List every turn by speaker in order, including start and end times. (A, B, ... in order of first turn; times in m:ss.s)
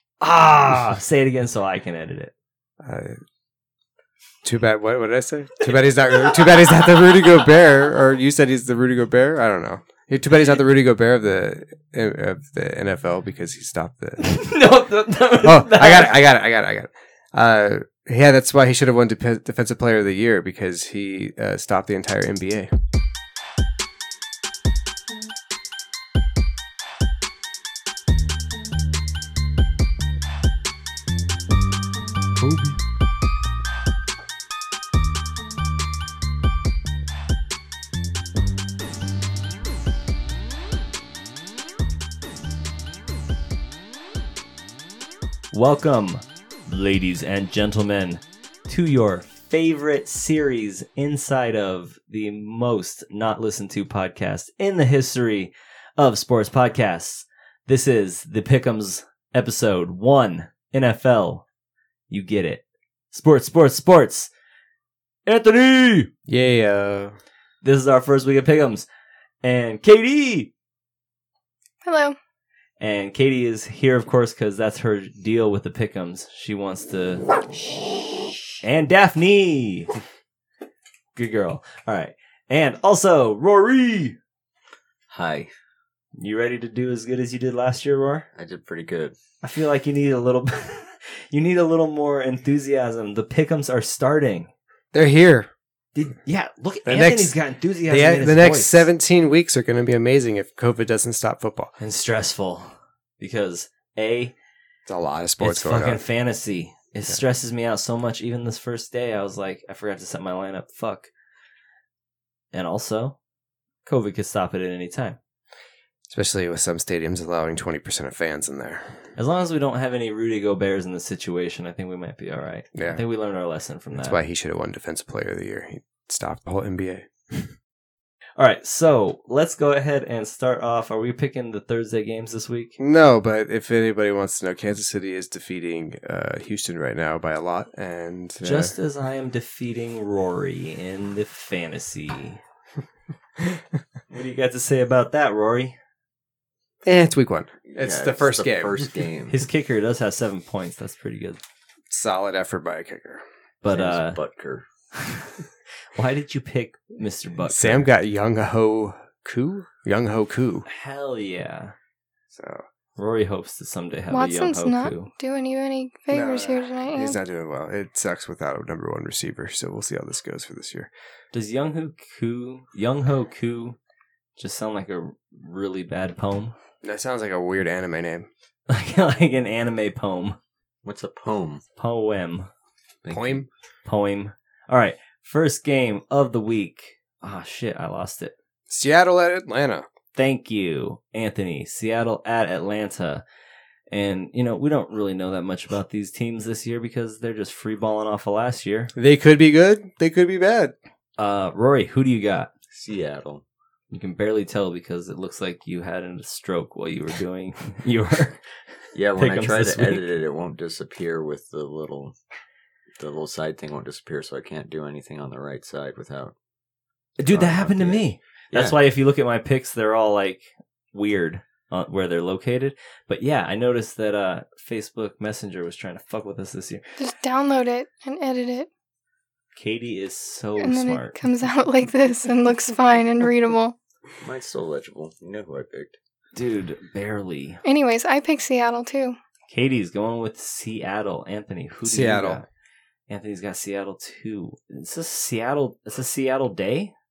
0:00.2-0:02.3 A
0:02.8-0:03.2 B
0:04.4-0:14.2 B
0:14.2-0:16.2 A
0:15.4-0:22.7 B
0:32.4-0:32.8 B
0:45.5-1:01.4 A
1:02.1-1:04.3 A
1:05.3-1:06.1 A
1:06.3-1:07.2 B
1:07.6-1:08.9 A
1:09.4-1:10.5 A
1:11.8-1:12.2 C
1:12.8-1:17.3 A
1:18.6-1:20.0 A
1:21.2-1:24.2 A
1:25.1-1:25.5 D
1:26.2-1:28.3 A
1:28.4-1:29.2 D
1:29.4-1:34.5 A
1:34.9-1:35.5 B
1:36.0-1:38.9 A
1:36.9-1:37.4 B
1:37.9-1:41.7 B
1:41.8-1:44.4 A
1:44.9-1:46.0 B
1:45.4-1:51.1 A
1:52.5-1:53.2 A
1:53.9-1:55.2 A
1:56.1-1:59.0 B
1:59.2-2:04.2 A
2:02.8-2:03.0 B
2:04.0-2:07.5 B
2:08.4-2:12.8 A
2:12.8-2:18.7 B
2:18.4-2:22.4 A
2:24.1-2:25.8 A
2:26.8-2:28.9 B
2:27.8-2:29.4 D
2:29.3-2:31.4 A
2:31.9-2:33.2 B
2:33.6-2:34.2 A
2:33.7-2:34.6 D
2:34.9-2:35.4 A
2:36.0-2:37.9 A
2:37.5-2:40.7 B
2:40.7-2:41.8 A
2:42.3-2:42.6 B
2:43.0-2:45.1 A
2:44.1-2:47.2 C
2:46.1-2:50.9 B
2:51.3-2:53.8 A
2:54.4-2:56.6 A
2:56.8-2:58.3 B
2:58.7-3:00.4 A
3:00.8-3:01.6 D
3:01.8-3:02.5 A
3:03.0-3:03.5 D
3:03.1-3:03.5 B
3:03.9-3:08.3 A
3:08.7-3:09.9 B
3:10.2-3:13.2 A
3:13.9-3:18.9 A
3:19.0-3:20.7 B
3:21.2-3:22.5 A
3:22.7-3:23.4 D
3:23.9-3:28.4 A
3:29.0-3:32.2 D
3:29.2-3:30.1 A
3:33.0-3:36.3 D
3:37.2-3:47.0 A
3:37.3-3:38.8 D
3:47.0-3:48.7 C
3:49.6-3:51.2 A
3:50.6-3:53.8 C
3:54.2-3:56.0 D
3:56.4-3:57.6 A
3:57.6-3:59.2 C
3:59.5-4:02.5 A
4:01.8-4:02.4 B
4:03.1-4:06.9 A